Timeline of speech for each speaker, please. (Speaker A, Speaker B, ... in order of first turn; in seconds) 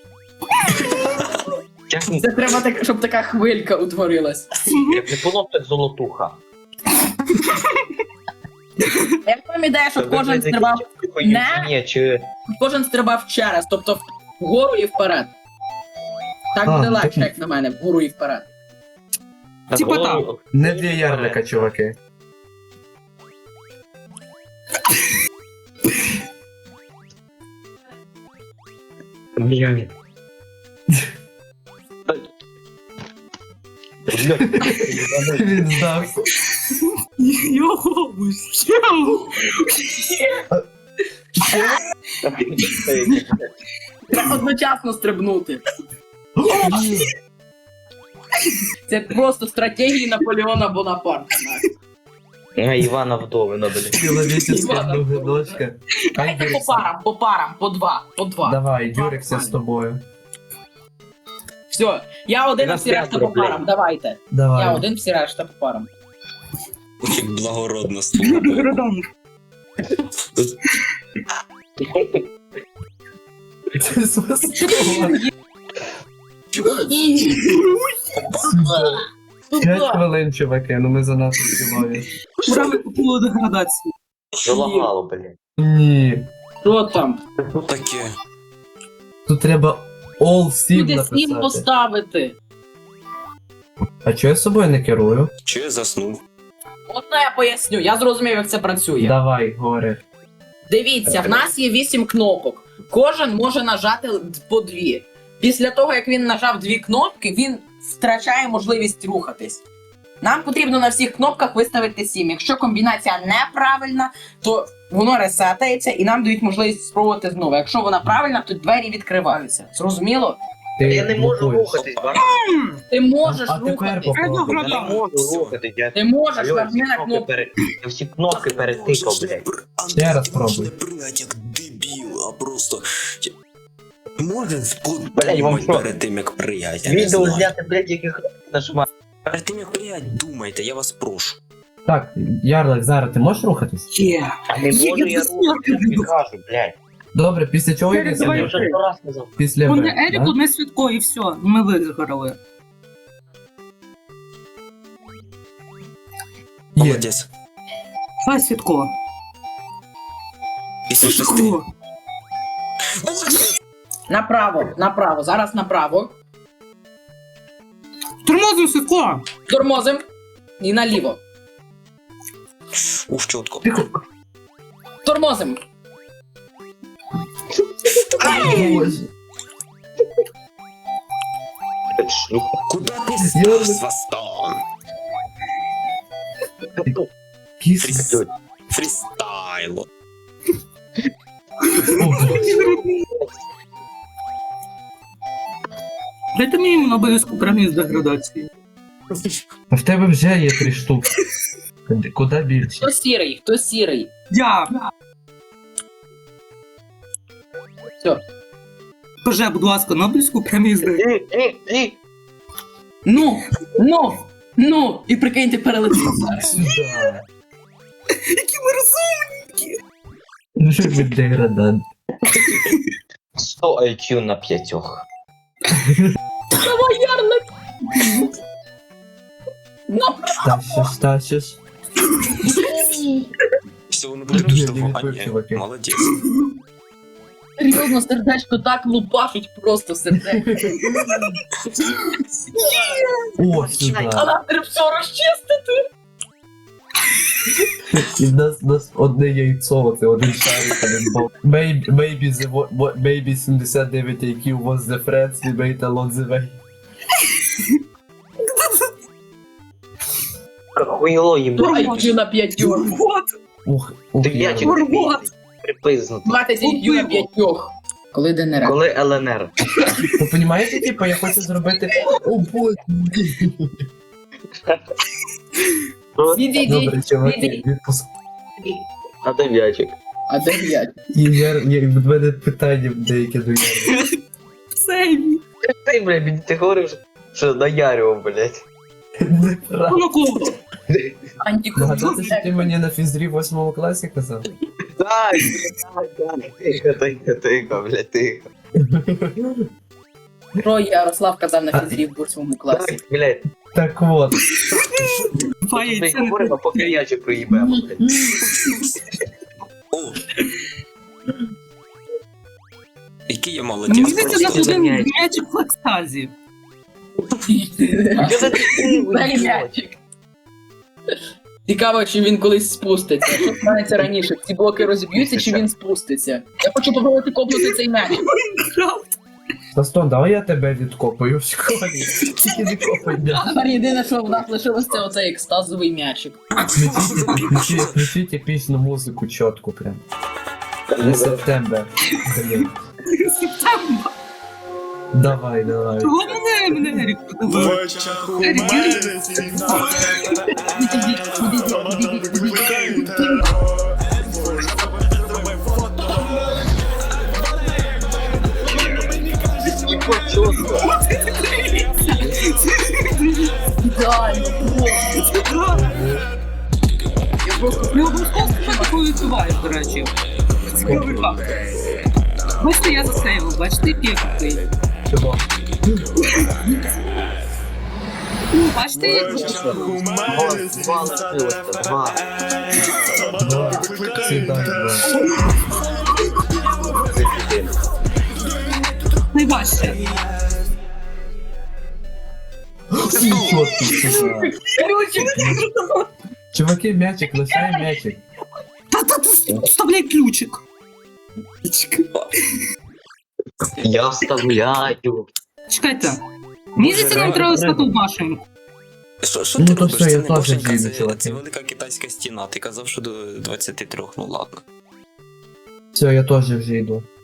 Speaker A: 1.9-2.5, 4.9-6.4, 10.0-12.2, 19.7-21.7, 29.4-29.9, 34.1-36.0, 42.2-43.5, 52.5-54.1, 62.6-63.6, 71.8-72.2, 82.5-82.8, 84.4-85.3, 120.8-122.4, 124.5-129.4, 135.1-135.9, 136.8-138.8, 144.5-146.8, 148.2-149.3, 178.2-178.7, 182.0-182.5, 188.0-188.3, 192.1-193.3, 210.8-212.0, 223.4-225.0, 242.6-244.3, 260.7-262.1, 264.2-266.4, 268.6-269.5, 276.1-276.6, 279.2-279.9, 285.8-288.6, 290.9-291.2, 295.0-298.5, 302.7-303.4, 305.7-308.2, 314.0-315.1, 318.2-319.7, 325.1-325.6, 340.9-341.4, 358.7-360.9, 380.2-382.2, 387.0-387.8, 403.8-405.3, 406.9-407.9
Speaker B: 2.2-4.5, 9.2-11.7, 12.5-15.3, 16.5-18.5, 44.1-45.6, 48.9-51.6, 54.4-55.6, 56.1-59.6, 61.7-65.9, 79.5-80.0, 84.5-84.9, 86.6-87.2, 90.7-92.3, 96.9-99.1, 100.7-109.6, 110.2-120.4, 122.9-124.2, 125.9-127.3, 164.1-166.2, 169.5-170.0, 170.6-171.2, 175.0-175.6, 202.8-204.1, 213.0-216.6, 226.6-227.4, 229.9-230.5, 232.5-233.0, 237.6-240.7, 244.1-245.8, 261.6-262.9, 266.2-268.8, 276.3-277.6, 280.3-280.9, 291.4-292.7, 300.6-303.0, 317.4-320.0, 321.6-328.2, 333.3-336.4, 350.7-353.4, 363.8-365.1, 367.4-369.0, 394.7-395.4
Speaker C: 4.7-5.0, 19.7-20.2, 37.2-40.2, 68.2-69.0, 77.3-77.6, 82.4-83.8, 122.2-122.8, 124.1-125.1, 143.9-146.1, 147.9-148.7, 149.6-152.4, 158.2-158.9, 161.0-161.6, 168.2-169.2, 178.2-178.8, 191.8-192.8, 196.3-198.5, 204.3-204.9, 209.2-211.0, 218.3-219.8, 258.5-258.9, 261.6-262.1, 262.6-263.3, 264.6-265.3, 266.6-267.3, 284.8-285.4, 289.9-290.5, 291.8-292.4, 305.6-307.0, 313.9-316.3, 328.2-329.1, 343.2-344.1, 346.0-347.8, 348.4-350.1, 360.8-363.5, 365.1-365.9, 367.9-370.1, 370.7-371.4, 372.6-374.6, 378.5-380.0, 389.3-390.0, 393.8-394.2, 394.8-396.1, 397.5-397.8, 398.9-400.6, 401.6-402.2, 405.7-406.2, 406.8-408.4
Speaker D: 16.6-17.3, 20.5-21.9, 34.5-34.8, 35.3-36.2, 41.4-41.8, 46.4-47.1, 53.9-56.9, 58.4-60.0, 64.3-64.8, 73.7-75.2, 78.4-79.0, 79.5-82.1, 85.6-86.3, 89.2-91.7, 94.0-95.3, 99.0-100.0, 120.8-122.1, 123.2-124.9, 129.9-130.7, 141.8-143.9, 147.1-148.6, 149.4-150.3, 156.7-157.1, 173.6-173.9, 178.2-179.1, 183.2-183.8, 187.6-188.2, 191.9-192.6, 199.7-201.1, 201.9-202.9, 216.4-217.2, 220.6-221.8, 225.7-226.1, 230.4-231.6, 234.3-235.6, 240.5-241.3, 243.4-244.3, 247.9-256.6, 263.6-264.8, 270.1-273.7, 276.6-278.1, 281.1-283.9, 289.2-290.1, 291.7-294.4, 298.8-299.6, 301.7-302.0, 303.7-304.4, 329.7-333.5, 336.8-340.0, 341.0-342.7, 345.1-347.0, 365.7-366.2, 370.8-371.4, 375.1-376.1, 383.4-385.1, 392.9-394.5, 395.4-395.6, 396.5-398.2, 409.6-411.4, 415.9-417.0
Speaker E: 67.0-68.8, 78.1-78.5, 87.5-88.1, 95.4-96.2, 125.0-125.6, 128.3-133.3, 134.2-137.5, 139.3-141.4, 156.8-157.3, 160.9-161.6, 163.0-163.5, 172.8-173.6, 182.7-184.6, 187.8-188.1, 188.7-189.9, 233.9-236.1, 308.4-308.9, 309.9-310.2, 313.3-314.8, 336.6-338.0, 393.1-393.6, 406.8-407.6, 409.2-414.6